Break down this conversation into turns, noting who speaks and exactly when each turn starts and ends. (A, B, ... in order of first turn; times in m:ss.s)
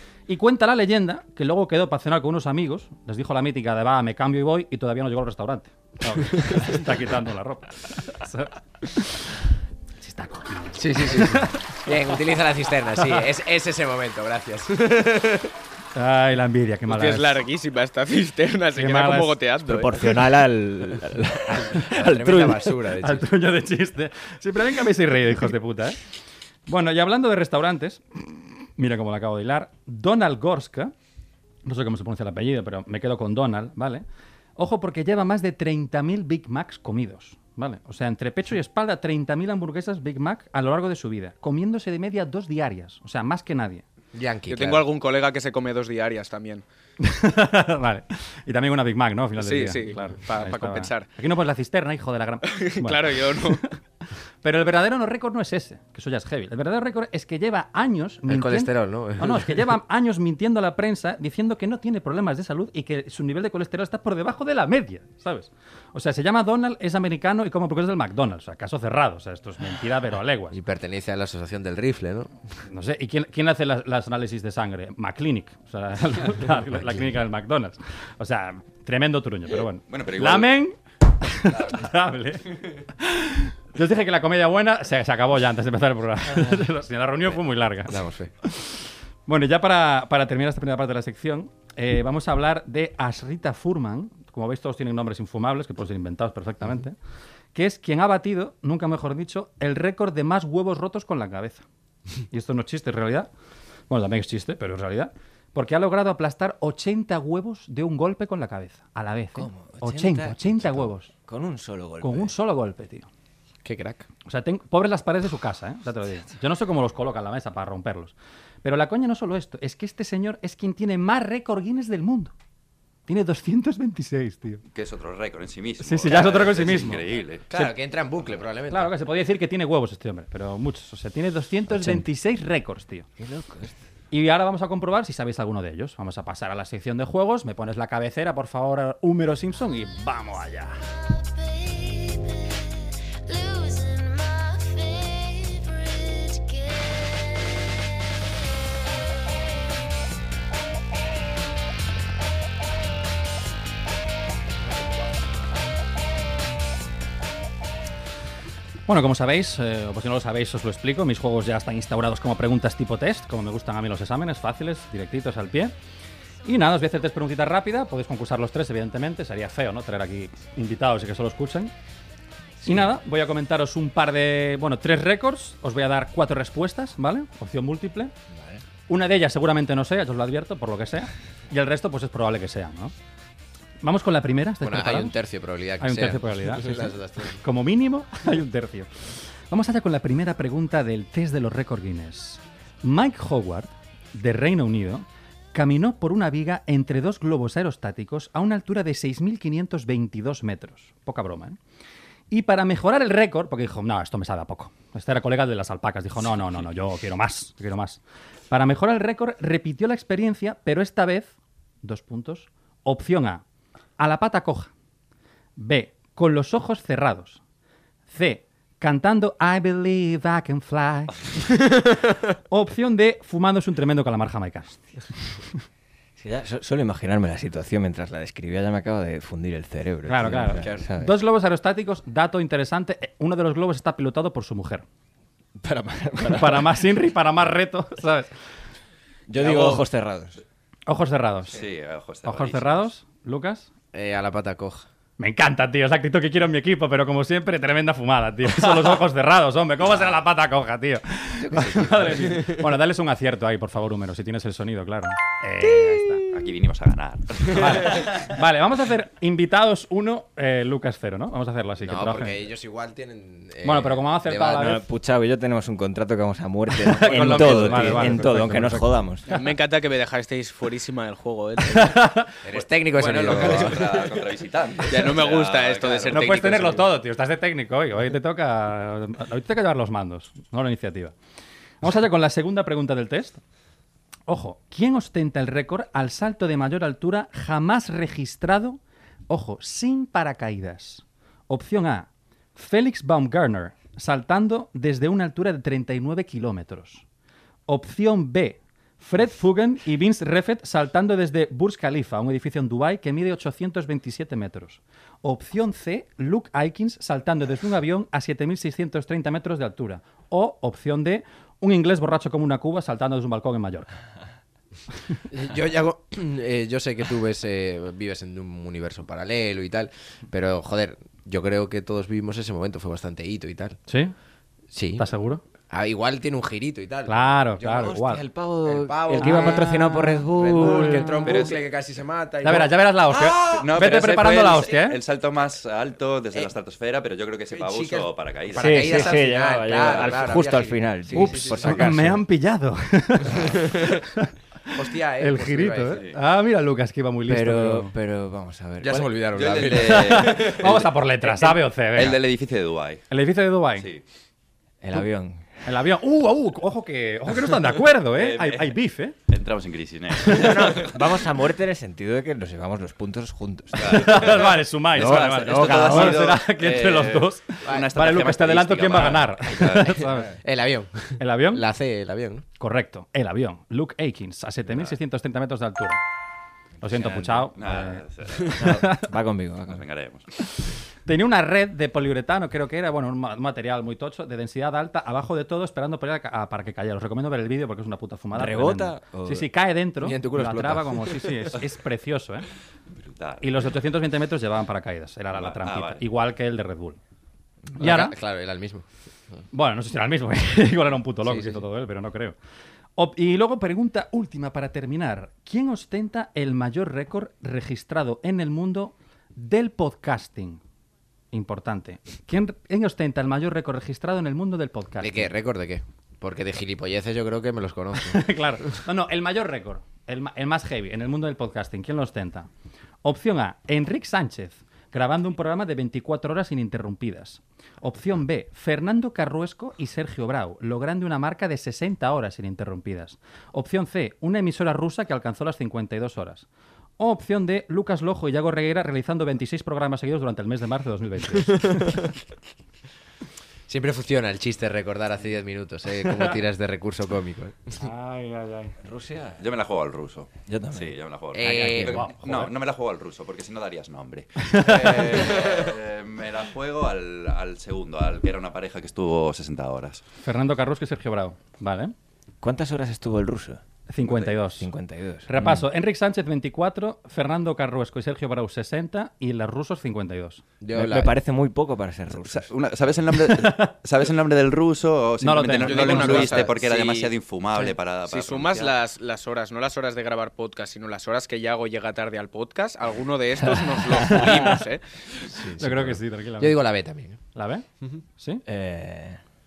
0:00.3-0:09.4 A
0:10.0-0:11.9 A
0:10.8-0:15.5 B
0:16.0-0:17.4 A
0:16.9-0:20.2 C
0:18.8-0:19.4 A
0:19.6-0:22.7 D
0:21.5-0:23.3 B
0:23.0-0:26.0 A
0:26.7-0:30.9 A
0:31.6-0:34.0 A
0:34.6-0:43.8 A
0:44.1-0:44.8 B
0:44.5-0:46.6 C
0:47.0-0:53.7 A
0:49.4-0:51.1 C
0:52.5-0:53.6 C
0:54.4-1:10.6 A
0:58.3-0:59.7 B
1:10.5-1:12.3 B
1:12.7-1:37.0 A
1:19.9-1:20.5 E
1:27.9-1:28.3 B
1:37.5-1:41.6 A
1:42.3-1:43.3 A
1:43.9-1:51.1 A
1:49.4-1:52.3 D
1:52.0-1:53.1 A
1:53.6-1:54.1 B
1:54.3-2:02.3 A
2:03.1-2:04.6 A
2:04.7-2:07.5 E
2:05.8-2:07.0 A
2:07.5-2:08.9 B
2:08.7-2:13.1 A
2:11.7-2:12.0 D
2:13.2-2:13.8 D
2:14.1-2:20.9 A
2:38.9-2:45.7 A
2:46.4-2:51.7 A
2:52.6-2:58.1 A
2:58.3-2:58.6 D
2:58.9-3:02.9 A
3:03.8-3:05.2 A
3:04.6-3:07.4 B
3:05.8-3:08.9 A
3:09.5-3:21.6 A
3:22.3-3:28.0 A
3:28.5-3:33.4 A
3:34.0-3:34.7 A
3:35.6-3:37.4 A
3:38.1-3:41.2 A
3:42.5-3:44.9 A
3:46.2-3:51.1 D
3:50.1-3:54.8 A
3:50.5-3:50.9 B
3:55.6-3:56.8 D
3:56.3-3:58.3 A
3:59.3-4:00.4 D
3:59.4-3:59.7 B
4:00.9-4:01.6 A
4:01.5-4:02.9 E
4:02.2-4:03.7 A
4:03.9-4:04.9 B
4:05.2-4:16.3 A
4:11.6-4:12.6 B
4:11.7-4:11.9 D
4:16.2-4:18.3 E
4:17.5-4:22.4 A
4:21.8-4:24.8 B
4:23.6-4:24.8 A
4:24.6-4:29.2 D
4:26.8-4:29.4 A
4:29.3-4:32.0 C
4:31.7-4:32.3 A
4:32.4-4:34.1 B
4:33.0-4:36.5 E
4:34.9-4:36.9 C
4:36.1-4:41.1 A
4:41.8-4:43.4 A
4:44.3-4:57.0 A
4:57.7-5:13.9 A
5:15.3-5:23.8 B
5:23.9-5:24.1 A
5:24.7-5:25.1 B
5:25.0-5:25.4 A
5:25.7-5:28.0 B
5:27.1-5:28.2 A
5:27.6-5:31.3 D
5:28.6-5:33.7 B
5:29.2-5:30.2 A
5:30.8-5:31.1 A
5:31.3-5:31.6 E
5:32.4-5:35.0 A
5:33.5-5:38.9 E
5:37.5-5:41.9 B
5:38.6-5:42.2 D
5:39.8-5:40.1 E
5:41.2-5:44.3 A
5:43.4-5:44.0 B
5:44.7-5:46.0 B
5:45.2-5:47.9 A
5:47.3-5:49.2 D
5:48.8-5:50.5 B
5:49.3-5:53.0 E
5:49.8-5:52.2 A
5:53.1-5:53.9 A
5:54.8-5:55.5 D
5:55.6-5:59.2 A
5:58.1-5:58.8 E
5:59.3-6:01.0 E
6:00.3-6:04.3 D
6:03.8-6:10.1 E
6:03.8-6:10.3 A
6:07.7-6:07.9 B
6:10.4-6:12.4 B
6:11.2-6:11.6 A
6:12.6-6:16.0 A
6:16.8-6:18.0 A
6:16.9-6:17.5 D
6:17.6-6:19.0 E
6:18.6-6:19.1 A
6:18.6-6:19.8 D
6:19.7-6:20.3 E
6:21.1-6:32.5 A
6:28.3-6:29.5 D
6:30.0-6:31.3 B
6:33.0-6:33.6 E
6:33.4-6:37.0 A
6:35.3-6:36.0 E
6:37.8-6:38.8 B
6:37.8-6:38.2 A
6:39.5-6:42.4 A
6:41.2-6:41.6 B
6:43.0-6:50.6 A
6:51.3-6:55.3 A
6:55.0-6:58.2 B
6:58.0-7:02.5 A
7:03.0-7:16.5 A
7:17.0-7:22.0 A
7:21.6-7:22.0 B
7:23.7-7:27.8 B
7:27.8-7:28.8 A
7:28.8-7:29.4 D
7:29.4-7:40.0 E
7:30.5-7:31.0 D
7:31.3-7:32.0 B
7:31.4-7:32.5 A
7:34.4-7:35.0 A
7:34.7-7:35.6 B
7:40.2-7:41.9 A
7:42.4-7:43.6 D
7:43.9-7:44.7 A
7:44.0-7:44.3 E
7:44.4-7:45.6 D
7:45.3-7:50.4 A
7:50.6-7:51.2 B
7:50.7-7:52.5 D
7:52.1-7:58.7 E
7:53.1-7:53.7 A
7:55.2-7:56.4 A
7:55.6-7:57.1 C
7:56.2-7:56.5 B
7:58.1-8:04.8 C
8:04.1-8:04.5 A
8:05.2-8:07.2 B
8:05.6-8:06.6 A
8:07.3-8:07.6 A
8:08.2-8:08.4 A
8:08.5-8:09.2 D